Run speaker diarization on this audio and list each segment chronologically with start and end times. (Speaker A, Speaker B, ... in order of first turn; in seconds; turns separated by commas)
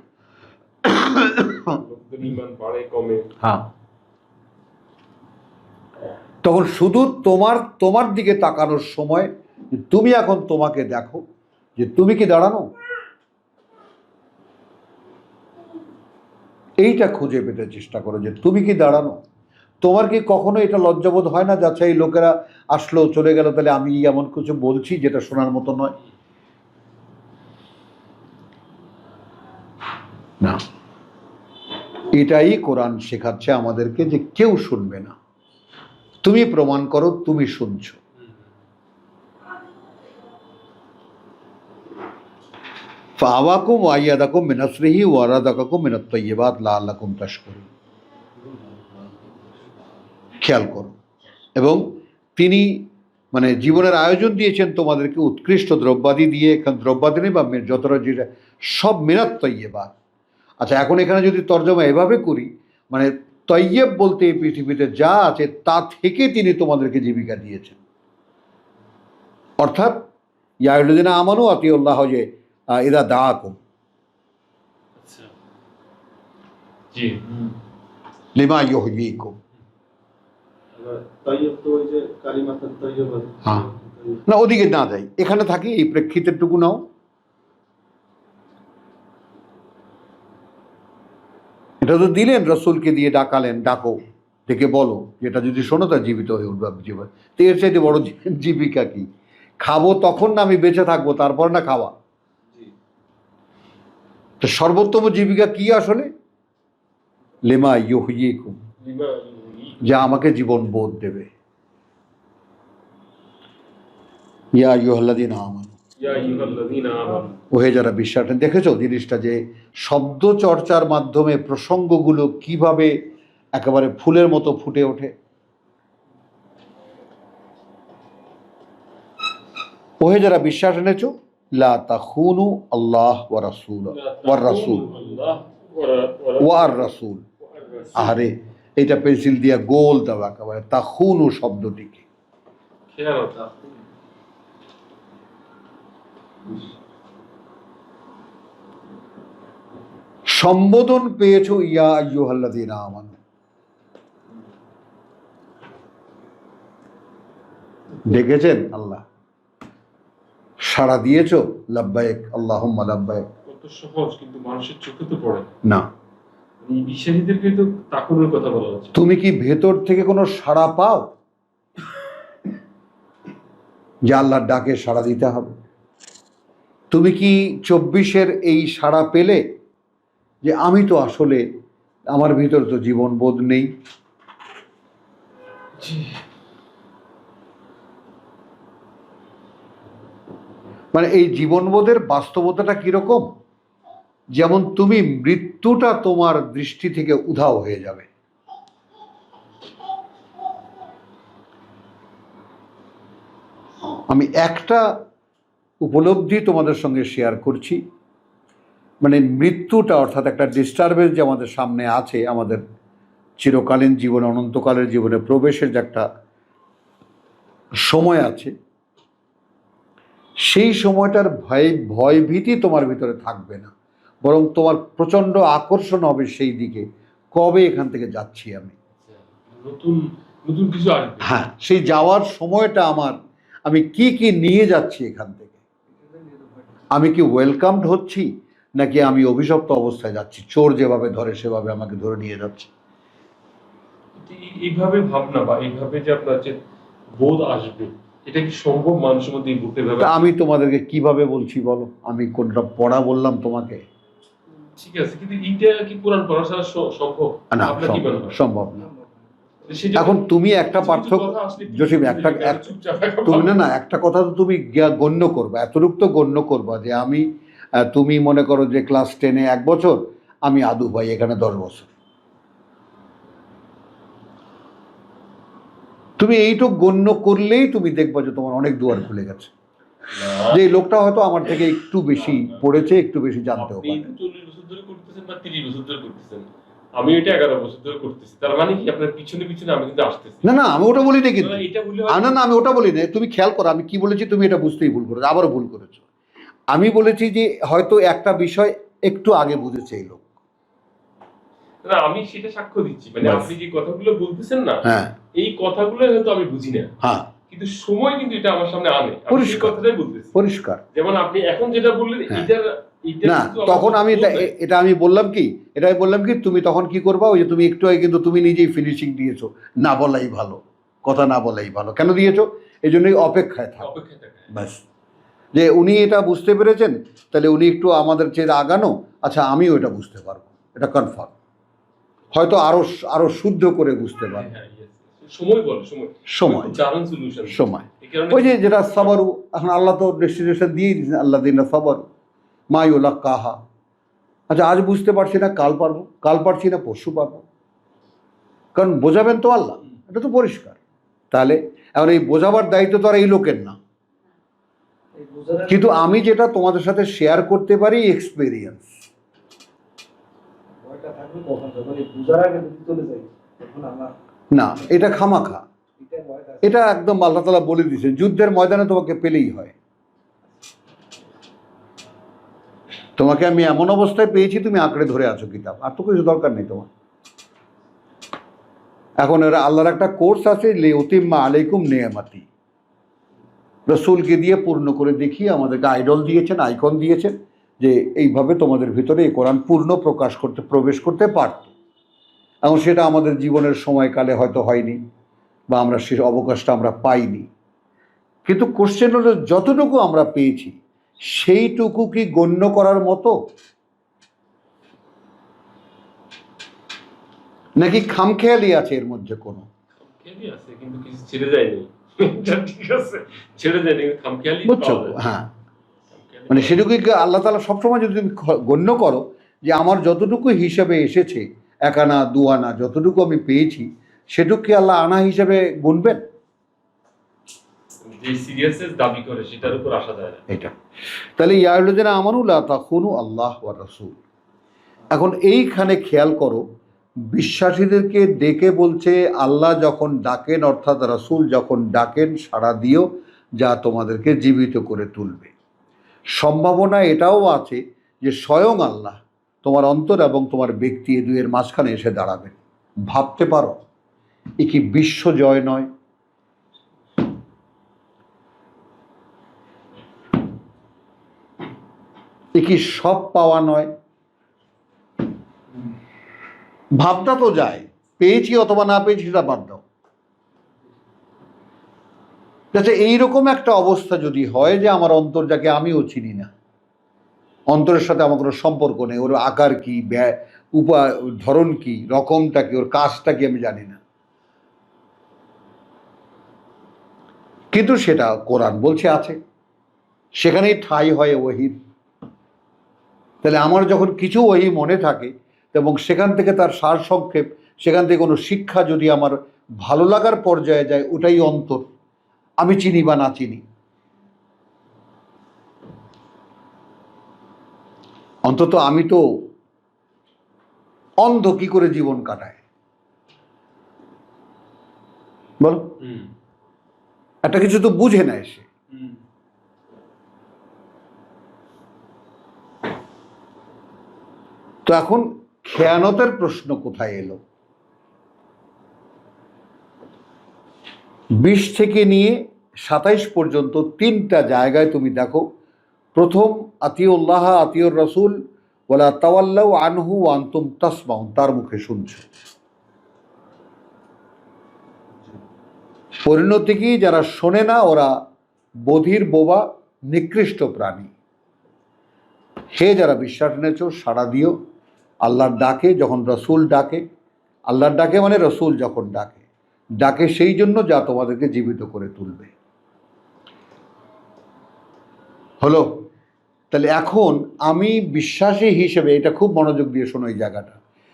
Speaker A: 0.8-1.6, Speaker B: 1.6-3.3, Speaker A: 3.4-3.7, Speaker A: 6.4-11.2, Speaker A: 11.8-12.7, Speaker A: 16.8-19.2, Speaker A: 19.8-25.9, Speaker A: 32.1-35.1, Speaker A: 36.2-38.0, Speaker A: 43.2-47.7, Speaker A: 50.4-50.9, Speaker A: 51.5-59.9, Speaker A: 60.6-67.8, Speaker A: 69.6-70.1, Speaker A: 70.6-73.6, Speaker B: 75.0-75.3, Speaker B: 76.9-77.5, Speaker A: 78.3-79.3, Speaker C: 80.7-84.2, Speaker A: 83.4-83.7, Speaker A: 84.3-86.8, Speaker A: 91.8-99.1, Speaker A: 99.6-101.9, Speaker A: 104.4-106.1, Speaker A: 107.4-108.6, Speaker B: 108.8-109.9, Speaker A: 109.8-111.3, Speaker A: 114.5-115.7, Speaker B: 116.0-117.3, Speaker A: 117.5-122.9, Speaker A: 123.5-125.1, Speaker A: 130.0-134.9, Speaker B: 133.9-136.9, Speaker A: 136.4-137.2, Speaker B: 137.4-138.2, Speaker A: 137.9-142.0, Speaker B: 142.9-143.6, Speaker A: 150.3-153.2, Speaker A: 158.0-159.0, Speaker A: 160.6-163.2, Speaker B: 163.5-165.5, Speaker B: 166.6-168.9, Speaker A: 168.9-171.1, Speaker A: 174.1-175.5, Speaker A: 176.9-179.4, Speaker A: 180.4-181.4, Speaker A: 182.1-183.7, Speaker B: 185.8-186.2, Speaker A: 190.9-193.3, Speaker A: 194.3-198.1, Speaker A: 204.1-204.9, Speaker A: 205.8-207.8, Speaker A: 209.0-212.6, Speaker A: 213.4-216.0, Speaker A: 217.8-218.5, Speaker A: 220.4-223.7, Speaker A: 224.2-228.7, Speaker B: 229.0-231.4, Speaker A: 231.2-233.1, Speaker A: 233.7-235.6, Speaker D: 236.0-236.8, Speaker A: 236.9-242.7, Speaker B: 244.2-246.6, Speaker B: 247.1-250.2, Speaker A: 250.0-253.8, Speaker B: 254.8-258.4, Speaker A: 257.5-258.9, Speaker D: 258.8-259.2, Speaker B: 259.6-263.6, Speaker A: 259.9-262.7, Speaker A: 263.2-267.2, Speaker A: 267.8-271.9, Speaker A: 276.2-279.5, Speaker B: 280.1-280.6, Speaker A: 280.5-284.1, Speaker B: 282.1-282.7, Speaker B: 283.6-290.5, Speaker A: 290.4-296.0, Speaker B: 291.4-292.4, Speaker A: 296.7-300.2, Speaker B: 301.8-306.9, Speaker A: 303.2-303.5, Speaker A: 304.8-305.1, Speaker A: 307.0-307.3, Speaker B: 307.5-310.4, Speaker A: 309.3-309.8, Speaker A: 310.3-310.8, Speaker B: 310.9-314.5, Speaker A: 313.2-323.9, Speaker B: 323.8-324.5, Speaker A: 324.5-324.8, Speaker A: 325.5-331.3, Speaker A: 332.3-334.5, Speaker B: 334.3-339.1, Speaker A: 336.3-336.8, Speaker A: 337.5-342.0, Speaker A: 342.7-343.6, Speaker A: 344.5-347.4, Speaker A: 348.7-350.8, Speaker A: 351.3-353.8, Speaker D: 355.2-355.8, Speaker A: 355.7-358.9, Speaker D: 360.8-364.1, Speaker A: 364.5-365.6, Speaker D: 366.0-366.7, Speaker A: 366.6-369.7, Speaker A: 373.2-376.9, Speaker A: 379.2-382.5, Speaker A: 383.9-391.7, Speaker A: 392.6-395.0, Speaker A: 395.7-397.5, Speaker A: 398.4-403.4, Speaker A: 407.8-409.6, Speaker B: 410.0-415.2, Speaker A: 414.6-415.5, Speaker B: 416.1-416.8, Speaker A: 416.5-426.2, Speaker B: 428.0-430.4, Speaker A: 431.4-434.2, Speaker A: 435.1-436.6, Speaker A: 437.3-443.1, Speaker A: 443.6-445.5, Speaker A: 446.4-453.8, Speaker A: 454.6-455.9, Speaker A: 462.5-463.9, Speaker A: 467.0-469.8, Speaker A: 472.7-476.5, Speaker A: 477.7-484.0, Speaker A: 487.7-489.4, Speaker A: 490.4-491.7, Speaker A: 493.4-501.9, Speaker A: 502.6-503.6, Speaker A: 508.4-509.2, Speaker A: 511.2-512.6, Speaker A: 515.6-515.9, Speaker B: 516.0-516.3, Speaker A: 517.4-518.6, Speaker B: 518.9-519.2, Speaker A: 524.9-527.4, Speaker A: 531.4-535.4, Speaker A: 536.1-538.4, Speaker A: 538.9-542.2, Speaker A: 546.2-548.1, Speaker A: 548.9-551.1, Speaker A: 552.7-554.5, Speaker A: 555.2-557.0, Speaker A: 557.7-559.4, Speaker A: 560.0-562.5, Speaker A: 565.6-565.9, Speaker A: 566.7-570.8